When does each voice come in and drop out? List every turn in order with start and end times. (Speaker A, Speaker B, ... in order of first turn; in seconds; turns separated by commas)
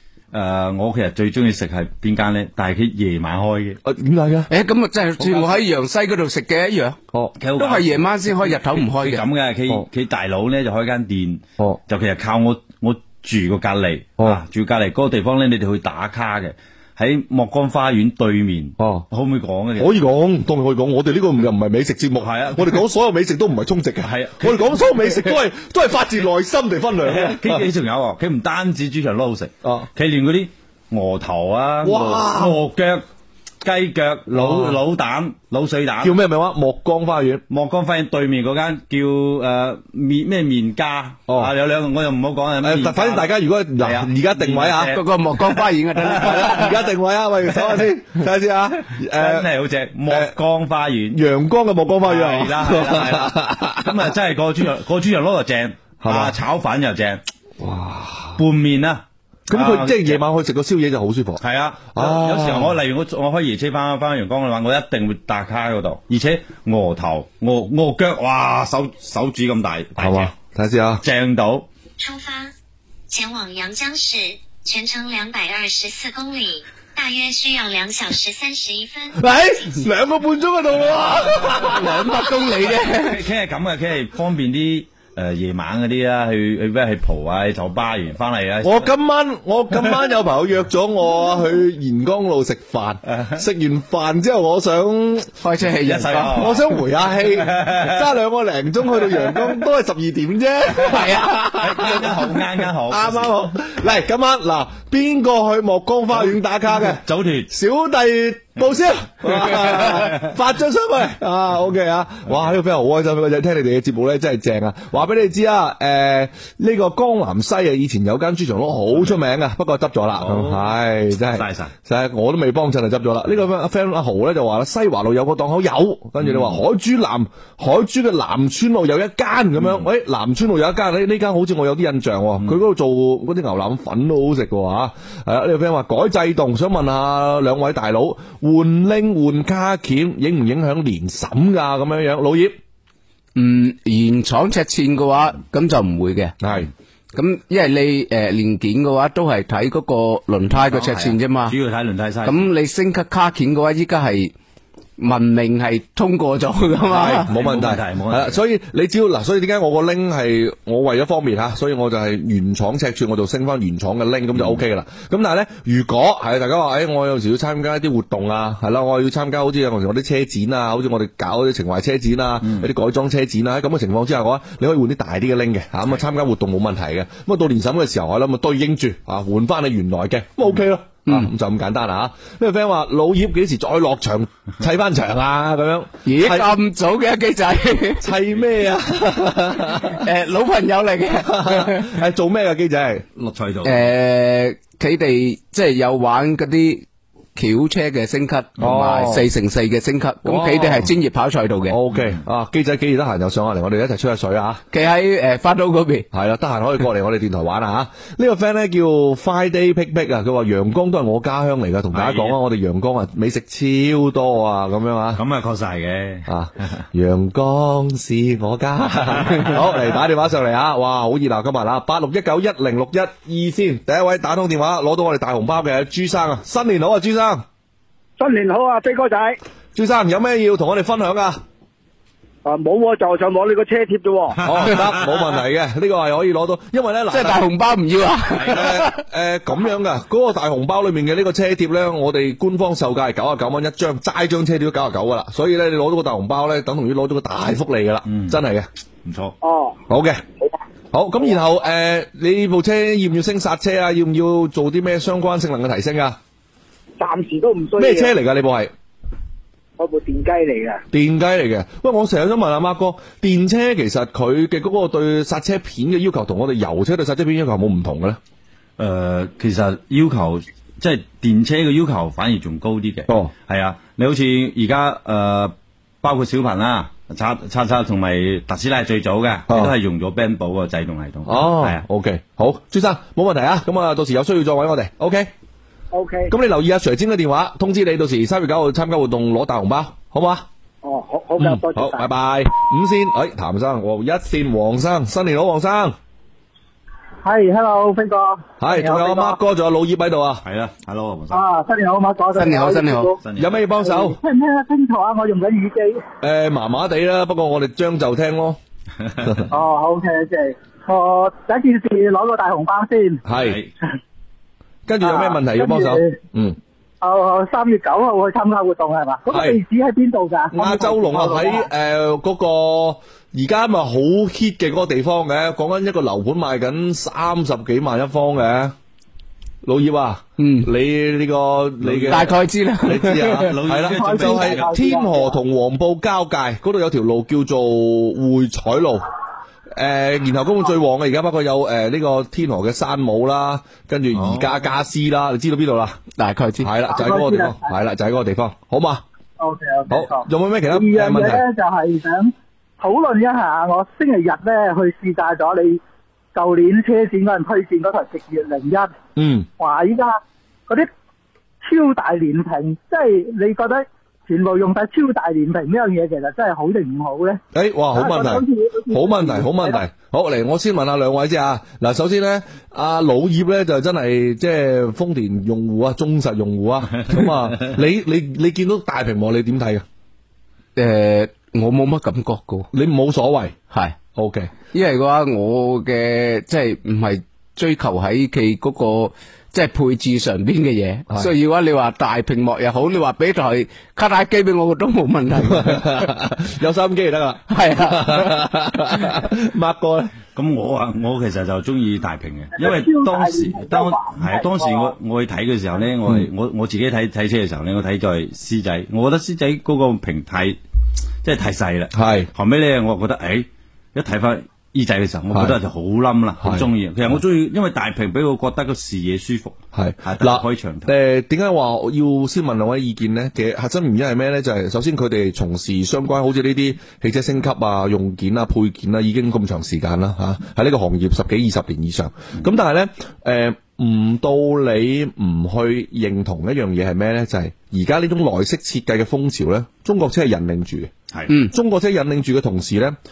Speaker A: 0.3-3.8, Speaker B: 3.8-4.5, Speaker C: 4.5-7.0, Speaker A: 7.4-20.0, Speaker C: 7.6-9.2, Speaker B: 18.8-19.0, Speaker B: 19.8-27.6, Speaker A: 22.2-22.8, Speaker A: 24.0-24.9, Speaker A: 27.0-33.0, Speaker B: 31.8-32.6, Speaker A: 33.6-36.2, Speaker B: 34.3-34.8, Speaker B: 36.0-37.4, Speaker A: 37.5-45.6, Speaker B: 42.6-45.0, Speaker C: 44.9-46.7, Speaker B: 46.1-49.5, Speaker A: 46.2-46.6, Speaker A: 47.6-47.8, Speaker A: 49.1-51.2, Speaker B: 50.1-50.3, Speaker B: 51.1-54.0, Speaker A: 52.0-57.2, Speaker B: 56.0-56.4, Speaker B: 57.6-58.4, Speaker A: 58.4-60.2, Speaker B: 59.5-61.4, Speaker A: 61.4-70.3, Speaker B: 61.9-62.8, Speaker B: 70.0-71.0, Speaker A: 71.0-71.7, Speaker D: 72.0-72.5, Speaker D: 73.1-79.2, Speaker B: 79.2-82.1, Speaker C: 81.5-83.2, Speaker A: 82.9-88.9, Speaker B: 88.6-95.3, Speaker C: 95.4-96.4, Speaker A: 95.8-98.0, Speaker B: 96.3-102.1, Speaker C: 100.8-101.4, Speaker A: 101.6-103.4, Speaker B: 102.9-142.6, Speaker A: 106.2-107.5, Speaker A: 109.5-110.1, Speaker A: 120.2-120.8, Speaker A: 121.3-121.7, Speaker A: 126.2-126.6, Speaker A: 129.6-129.8, Speaker C: 143.3-146.3, Speaker B: 146.4-146.7, Speaker C: 147.1-151.5, Speaker A: 150.5-152.5, Speaker C: 152.2-154.3, Speaker C: 155.0-157.3, Speaker B: 156.9-186.5, Speaker A: 157.1-158.4, Speaker A: 164.3-164.6, Speaker A: 172.4-172.7, Speaker C: 181.1-181.3, Speaker C: 186.1-188.1, Speaker B: 188.0-190.0, Speaker C: 189.8-191.9, Speaker B: 191.2-193.1, Speaker A: 193.2-193.9, Speaker C: 193.6-196.8, Speaker C: 197.3-201.8, Speaker B: 198.6-199.2, Speaker B: 200.2-200.9, Speaker B: 201.7-204.6, Speaker A: 201.9-202.2, Speaker C: 204.7-206.1, Speaker B: 206.1-215.2, Speaker A: 211.9-212.3, Speaker A: 215.2-216.8, Speaker B: 216.3-227.4, Speaker A: 219.1-219.6, Speaker E: 228.2-229.3, Speaker B: 229.7-231.4, Speaker E: 232.4-234.3, Speaker B: 234.4-237.4, Speaker C: 237.1-238.9, Speaker B: 238.5-248.7, Speaker A: 248.1-248.4, Speaker A: 249.0-249.3, Speaker E: 249.4-249.7, Speaker B: 249.9-250.2, Speaker B: 250.9-256.2, Speaker E: 257.0-258.1, Speaker B: 257.8-258.7, Speaker E: 259.8-260.8, Speaker B: 260.9-268.2, Speaker A: 268.8-281.8, Speaker B: 279.5-279.7, Speaker B: 281.3-285.3, Speaker E: 285.9-286.3, Speaker B: 286.3-290.4, Speaker E: 290.8-292.0, Speaker B: 291.4-295.9, Speaker F: 297.2-299.4, Speaker B: 298.6-300.4, Speaker A: 300.4-301.4, Speaker F: 301.3-303.2, Speaker C: 302.4-303.1, Speaker A: 303.2-303.6, Speaker B: 303.4-304.2, Speaker F: 303.8-306.0, Speaker B: 306.2-308.6, Speaker A: 309.0-309.4, Speaker F: 309.5-313.2, Speaker B: 313.3-313.6, Speaker A: 313.3-313.7, Speaker B: 314.9-316.6, Speaker F: 315.0-316.1, Speaker F: 317.0-321.7, Speaker B: 319.3-319.6, Speaker B: 320.5-328.7, Speaker B: 329.6-332.3, Speaker C: 330.4-330.7, Speaker A: 331.8-332.3, Speaker C: 332.1-333.5, Speaker B: 332.8-339.0, Speaker A: 333.4-334.7, Speaker F: 333.9-335.4, Speaker B: 339.7-346.0, Speaker A: 344.1-344.7, Speaker C: 346.2-346.7, Speaker B: 346.6-349.0, Speaker F: 346.9-347.7, Speaker F: 349.4-355.8, Speaker B: 349.9-351.4, Speaker F: 356.3-358.9, Speaker B: 359.1-359.5, Speaker F: 359.6-360.9, Speaker F: 361.6-367.4, Speaker B: 367.5-379.8, Speaker F: 367.9-369.8, Speaker A: 377.0-377.3, Speaker C: 380.8-382.7, Speaker B: 382.7-383.5, Speaker C: 383.7-383.9, Speaker B: 384.1-384.5, Speaker C: 384.7-396.1, Speaker B: 395.5-400.1, Speaker C: 397.5-398.4, Speaker A: 400.4-410.6, Speaker F: 402.6-404.9, Speaker A: 411.2-420.9, Speaker B: 411.9-412.3, Speaker B: 416.4-417.2, Speaker B: 419.7-440.9, Speaker B: 441.5-442.9